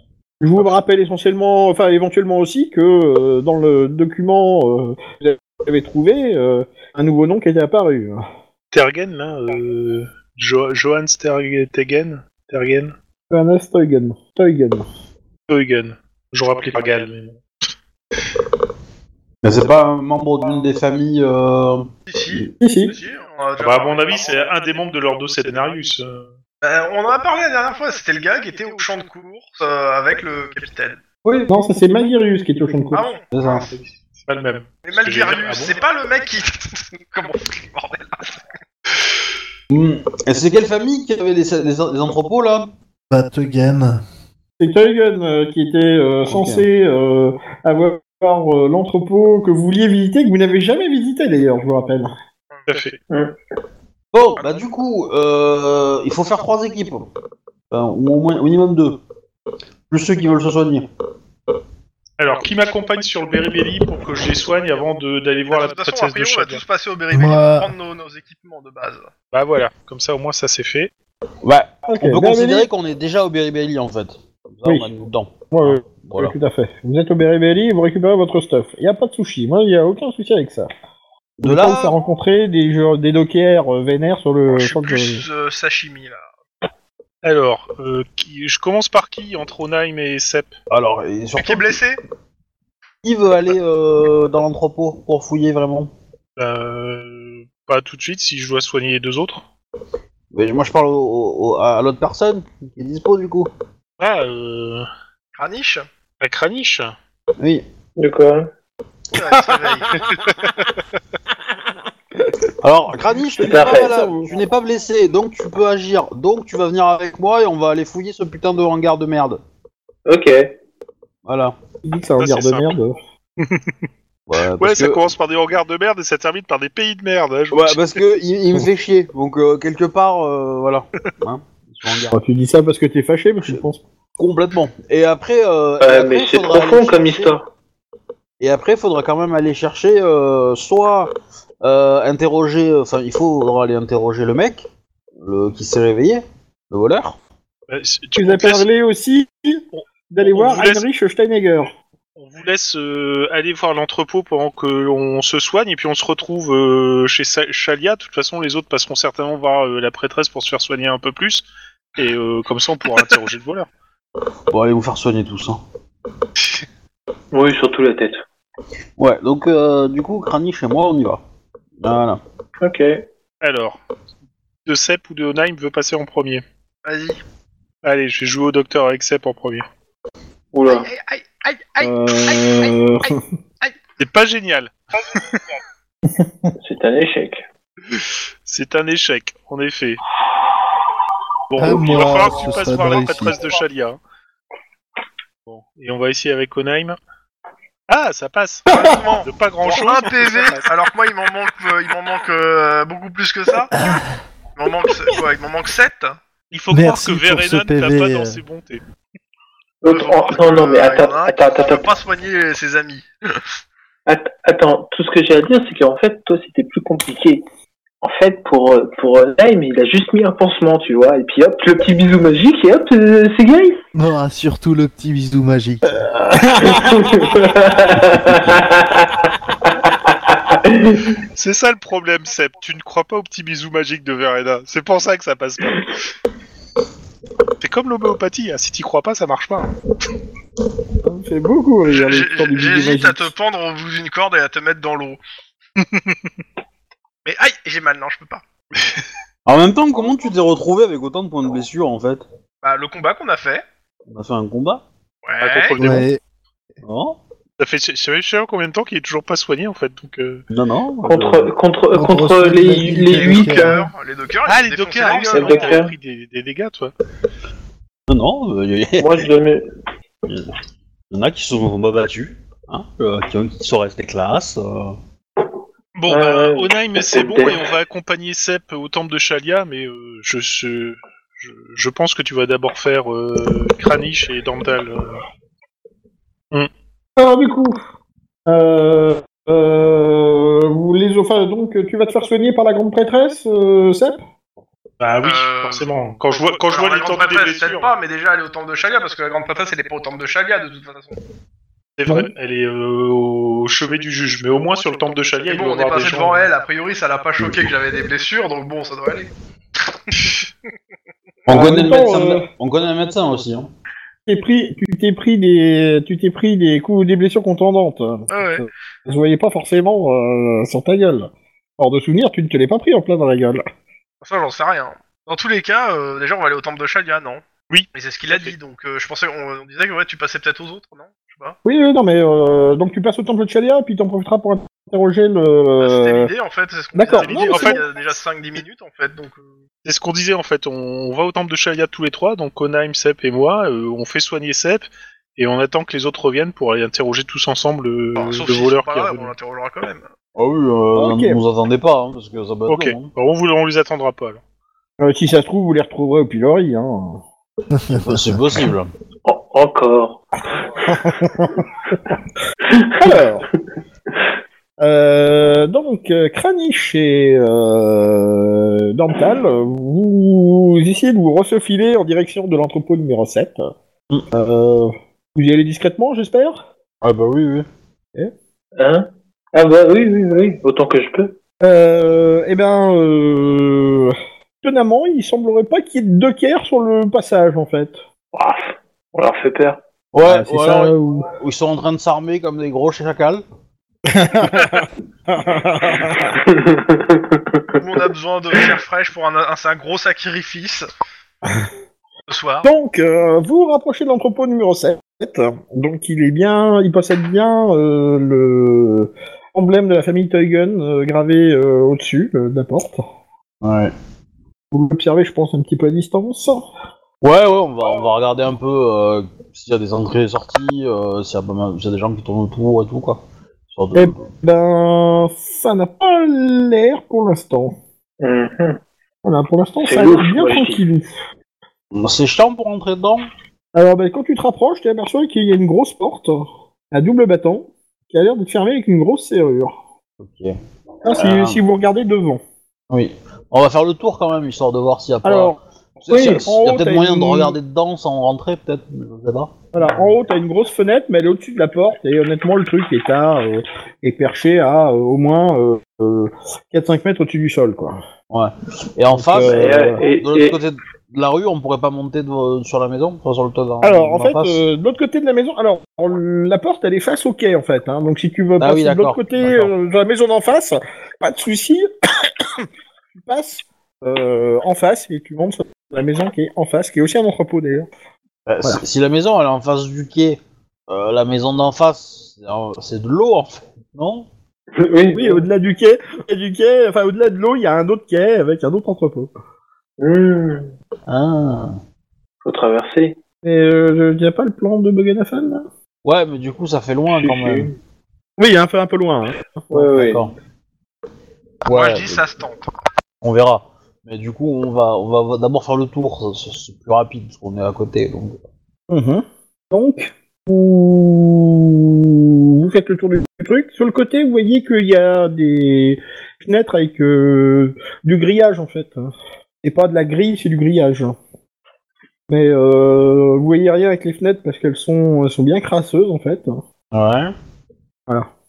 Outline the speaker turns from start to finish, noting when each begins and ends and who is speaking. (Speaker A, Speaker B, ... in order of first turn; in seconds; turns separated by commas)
Speaker A: 0.4-8.2, Speaker B: 8.7-12.9, Speaker A: 13.3-14.9, Speaker B: 15.5-17.4, Speaker C: 19.4-21.9, Speaker D: 22.1-24.4, Speaker A: 22.4-23.0, Speaker B: 23.6-26.3, Speaker D: 26.6-31.0, Speaker C: 31.2-31.5, Speaker A: 31.5-33.1, Speaker D: 32.9-33.7, Speaker C: 33.3-33.7, Speaker B: 33.4-35.8, Speaker D: 34.9-38.2, Speaker C: 39.7-42.7, Speaker E: 43.1-44.0, Speaker A: 44.6-52.1, Speaker C: 46.3-46.7, Speaker D: 52.5-52.9, Speaker B: 52.7-53.0, Speaker F: 53.1-53.4, Speaker C: 54.1-57.1, Speaker C: 57.7-59.0, Speaker C: 59.9-60.9, Speaker B: 62.2-66.6, Speaker D: 65.5-69.1, Speaker E: 67.1-67.7, Speaker B: 69.3-70.9, Speaker C: 71.4-76.3, Speaker A: 71.9-72.7, Speaker A: 74.7-74.9, Speaker A: 75.5-80.7, Speaker C: 81.4-82.0, Speaker A: 81.4-85.2, Speaker D: 84.5-86.3, Speaker B: 87.2-90.5, Speaker C: 90.7-91.8, Speaker D: 91.4-92.0, Speaker C: 93.0-95.9, Speaker B: 96.4-99.4, Speaker C: 100.3-103.5, Speaker B: 104.0-104.9, Speaker D: 105.4-105.9, Speaker B: 106.2-106.9, Speaker C: 107.4-107.7, Speaker F: 108.0-108.5, Speaker D: 109.1-109.9, Speaker C: 109.2-109.6, Speaker C: 112.6-119.4, Speaker A: 113.2-114.3, Speaker F: 113.4-114.1, Speaker F: 120.1-120.6, Speaker C: 121.2-121.5, Speaker A: 121.8-123.0, Speaker B: 122.2-122.8, Speaker B: 123.4-123.8, Speaker C: 124.3-125.0, Speaker B: 124.6-128.0, Speaker C: 127.5-132.1, Speaker A: 132.1-133.8, Speaker C: 134.2-137.4, Speaker F: 135.8-137.5, Speaker C: 138.4-144.7, Speaker C: 145.2-147.2, Speaker B: 147.7-148.7, Speaker A: 148.2-151.7, Speaker B: 149.7-150.8, Speaker B: 152.2-161.4, Speaker B: 161.9-163.7, Speaker C: 164.5-165.6, Speaker F: 167.3-168.2, Speaker C: 169.0-171.2, Speaker C: 171.8-172.2, Speaker F: 172.6-173.1, Speaker B: 173.4-173.8, Speaker B: 174.7-176.4, Speaker D: 176.8-177.2, Speaker B: 177.8-179.7, Speaker F: 180.5-180.9, Speaker D: 180.7-183.1, Speaker A: 181.8-183.2, Speaker B: 184.0-185.5, Speaker A: 186.1-186.5, Speaker F: 186.6-187.4, Speaker B: 188.0-190.0, Speaker B: 191.5-194.0, Speaker E: 191.6-193.4, Speaker B: 195.4-197.0, Speaker B: 197.9-200.7, Speaker D: 198.7-203.7, Speaker E: 203.7-204.1, Speaker D: 204.6-206.2, Speaker B: 206.5-208.8, Speaker E: 206.7-208.4, Speaker F: 209.8-211.9, Speaker D: 209.9-213.1, Speaker F: 214.1-217.4, Speaker F: 218.0-223.8, Speaker E: 223.9-226.1, Speaker F: 226.6-229.1, Speaker F: 229.7-231.1, Speaker B: 231.3-236.0, Speaker B: 237.6-239.7, Speaker A: 241.0-243.3, Speaker D: 241.8-245.2, Speaker D: 247.2-248.4, Speaker C: 249.4-252.2, Speaker D: 252.6-253.6, Speaker C: 254.1-254.8, Speaker D: 255.2-256.0, Speaker B: 255.4-256.1, Speaker E: 255.8-256.2, Speaker C: 256.8-257.2, Speaker B: 257.6-260.4, Speaker C: 260.5-261.5, Speaker F: 261.0-263.8, Speaker E: 261.9-263.8, Speaker D: 263.2-265.8, Speaker B: 264.4-266.9, Speaker F: 265.1-265.9, Speaker C: 268.1-269.3, Speaker F: 269.0-269.7, Speaker C: 270.3-270.5, Speaker C: 271.1-275.0, Speaker B: 275.9-285.2, Speaker F: 276.1-277.6, Speaker A: 287.2-287.8, Speaker A: 288.5-294.2, Speaker B: 295.0-297.9, Speaker D: 295.2-295.9, Speaker D: 296.5-301.1, Speaker B: 302.0-306.5, Speaker D: 305.4-309.3, Speaker D: 310.1-310.4, Speaker A: 311.5-312.4, Speaker C: 311.5-313.7, Speaker A: 314.3-323.6, Speaker D: 318.3-318.6, Speaker D: 324.2-327.4, Speaker B: 327.7-328.6, Speaker D: 327.9-331.6, Speaker A: 331.6-336.3, Speaker D: 335.8-339.4, Speaker A: 336.9-337.8, Speaker B: 337.2-337.8, Speaker B: 339.8-349.3, Speaker D: 348.2-350.1, Speaker C: 350.4-353.1, Speaker A: 350.9-351.4, Speaker B: 352.7-354.4, Speaker A: 355.0-357.2, Speaker C: 357.9-358.9, Speaker F: 359.2-360.2, Speaker A: 360.8-361.6, Speaker F: 362.7-363.1, Speaker A: 362.9-363.5, Speaker A: 364.8-373.7, Speaker A: 374.3-376.6, Speaker C: 377.0-377.7, Speaker F: 378.8-381.4, Speaker A: 381.6-388.0, Speaker F: 388.3-389.8, Speaker C: 390.1-393.4, Speaker A: 390.2-391.3, Speaker A: 394.1-396.4, Speaker F: 396.4-397.6, Speaker D: 397.8-400.9, Speaker D: 402.3-402.7, Speaker A: 402.6-413.0, Speaker C: 413.6-413.9, Speaker A: 414.7-416.6, Speaker C: 417.2-424.3, Speaker A: 423.9-427.8, Speaker F: 428.2-428.8, Speaker A: 429.2-431.1, Speaker F: 429.8-430.8, Speaker C: 431.9-433.3, Speaker A: 433.8-439.8, Speaker C: 440.2-440.6, Speaker A: 441.0-442.4, Speaker C: 441.1-441.6, Speaker C: 442.9-450.1, Speaker A: 445.2-445.6, Speaker A: 446.1-447.6, Speaker A: 449.7-458.0, Speaker C: 458.3-464.6, Speaker A: 459.1-460.0, Speaker F: 459.4-460.6, Speaker A: 463.8-472.3, Speaker C: 468.6-469.7, Speaker A: 473.2-477.9, Speaker C: 478.4-484.3, Speaker F: 484.8-485.4, Speaker A: 485.1-489.3, Speaker F: 490.0-490.7, Speaker C: 491.1-491.8, Speaker F: 492.4-493.2, Speaker A: 493.4-495.7, Speaker C: 496.1-497.7, Speaker F: 497.1-497.7, Speaker A: 498.4-499.7, Speaker F: 499.7-500.3, Speaker C: 499.7-500.3, Speaker C: 501.6-502.2, Speaker D: 501.7-502.7, Speaker C: 503.2-508.4, Speaker A: 508.9-521.2, Speaker A: 522.3-526.6, Speaker C: 526.9-527.3